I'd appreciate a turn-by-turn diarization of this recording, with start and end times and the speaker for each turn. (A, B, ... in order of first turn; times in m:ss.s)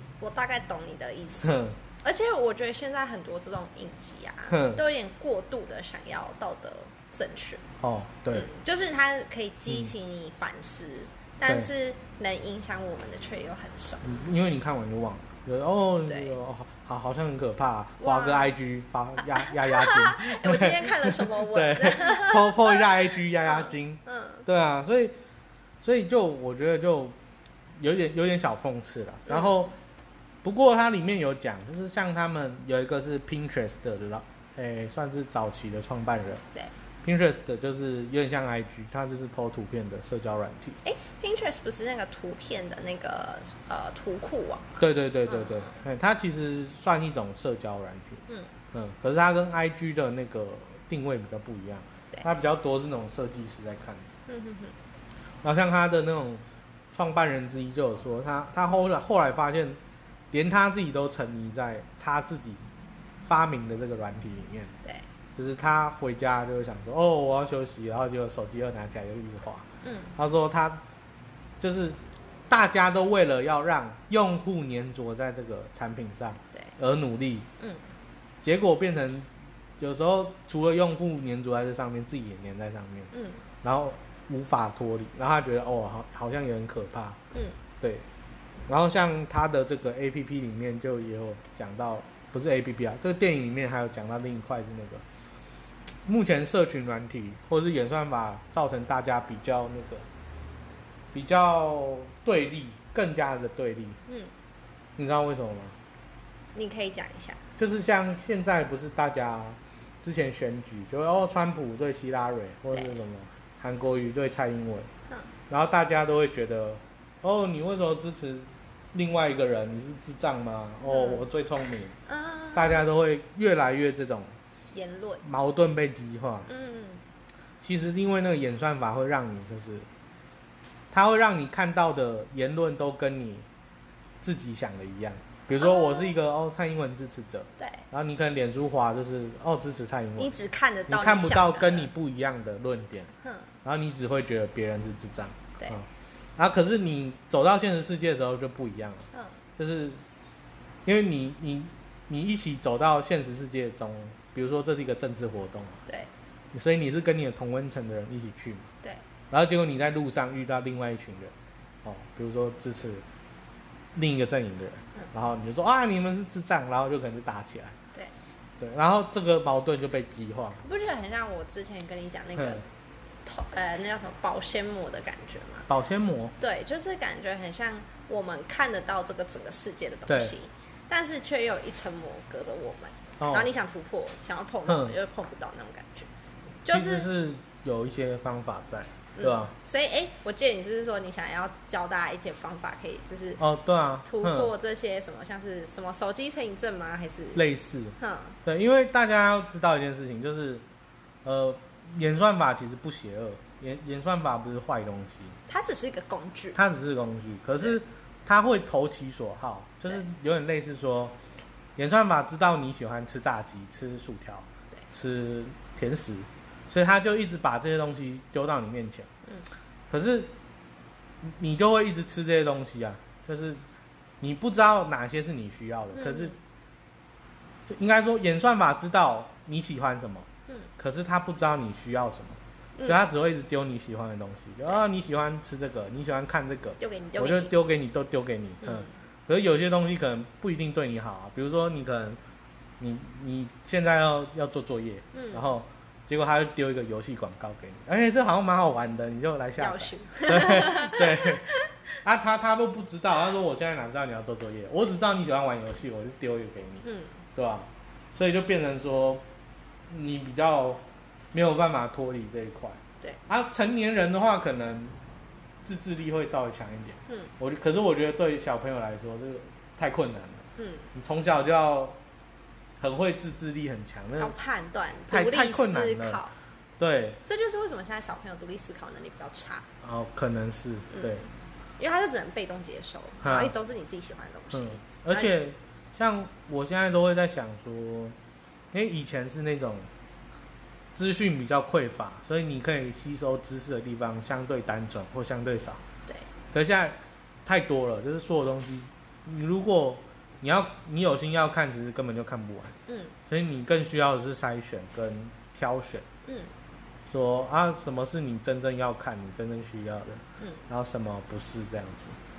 0:00.2-0:07.6 A
0:01.4-0:01.8 B
0:04.5-0:04.8 B
0:07.8-0:08.5 B
0:08.3-0:14.0 A
0:14.0-0:25.1 B
0:16.1-0:16.3 A
0:18.0-0:18.5 A
0:19.2-0:24.4 A
0:25.8-0:27.2 B
0:27.8-0:29.7 B
0:29.3-0:29.6 A
0:30.4-0:36.4 B
0:37.0-0:40.8 B
0:40.8-0:45.7 A
0:44.8-0:54.1 B
0:54.3-0:54.7 A
0:55.4-0:59.8 B
1:00.3-1:02.6 B
1:03.2-1:04.7 B
1:05.4-1:10.8 B
1:09.8-1:10.1 A
1:11.6-1:17.5 B
1:18.4-1:23.1 B
1:23.1-1:23.4 A
1:23.6-1:27.2 B
1:27.3-1:27.6 A
1:27.8-1:28.0 B
1:28.7-1:35.0 B
1:36.0-1:40.0 B
1:41.1-1:44.0 B
1:45.0-1:45.8 B
1:46.5-1:47.4 A
1:47.6-1:54.9 B
1:55.5-2:01.9 B
2:00.8-2:01.2 A
2:02.1-2:02.8 A
2:02.5-2:04.3 B
2:04.7-2:05.2 A
2:05.2-2:06.5 B
2:06.5-2:07.0 A
2:07.6-2:09.9 B
2:10.9-2:13.4 B
2:14.2-2:23.1 B
2:15.6-2:16.1 A
2:17.6-2:17.8 A
2:20.2-2:21.9 A
2:23.2-2:23.5 A
2:23.6-2:30.0 B
2:30.8-2:35.8 B
2:36.5-2:38.7 B
2:39.3-2:43.0 B
2:43.9-2:47.8 B
2:48.6-2:50.6 B
2:50.6-2:52.6 A
2:52.4-2:52.6 B
2:53.2-2:55.7 A
2:55.7-2:56.3 B
2:56.4-3:06.1 A
3:00.1-3:00.3 B
3:03.2-3:03.5 B
3:04.7-3:05.0 B
3:06.6-3:07.1 A
3:06.7-3:09.5 B
3:09.2-3:13.4 A
3:13.4-3:14.5 B
3:14.0-3:17.4 A
3:17.3-3:20.6 B
3:18.0-3:18.4 A
3:21.2-3:25.4 B
3:25.5-3:26.6 A
3:26.5-3:31.2 B
3:31.8-3:39.1 B
3:39.9-3:40.3 B
3:41.2-3:43.6 B
3:44.2-3:46.4 B
3:45.9-3:46.3 A
3:47.7-4:02.2 B
3:56.8-3:57.5 A
3:58.6-3:58.9 A
4:02.8-4:11.5 B
4:05.1-4:05.5 A
4:09.6-4:11.8 A
4:12.0-4:16.8 B
4:16.8-4:17.2 A
4:17.4-4:19.2 B
4:19.9-4:25.0 B
4:25.6-4:32.0 B
4:30.6-4:30.9 A
4:32.8-4:34.3 B
4:34.2-4:36.3 A
4:35.1-4:36.2 B
4:36.8-4:37.2 B
4:37.2-4:39.7 A
4:39.8-4:41.2 B
4:40.9-4:45.3 A
4:43.2-4:43.5 B
4:44.5-4:48.2 B
4:48.7-4:49.9 B
4:50.9-4:55.8 B
4:56.5-5:02.8 B
5:02.9-5:03.1 A
5:03.3-5:06.0 B
5:07.1-5:12.2 B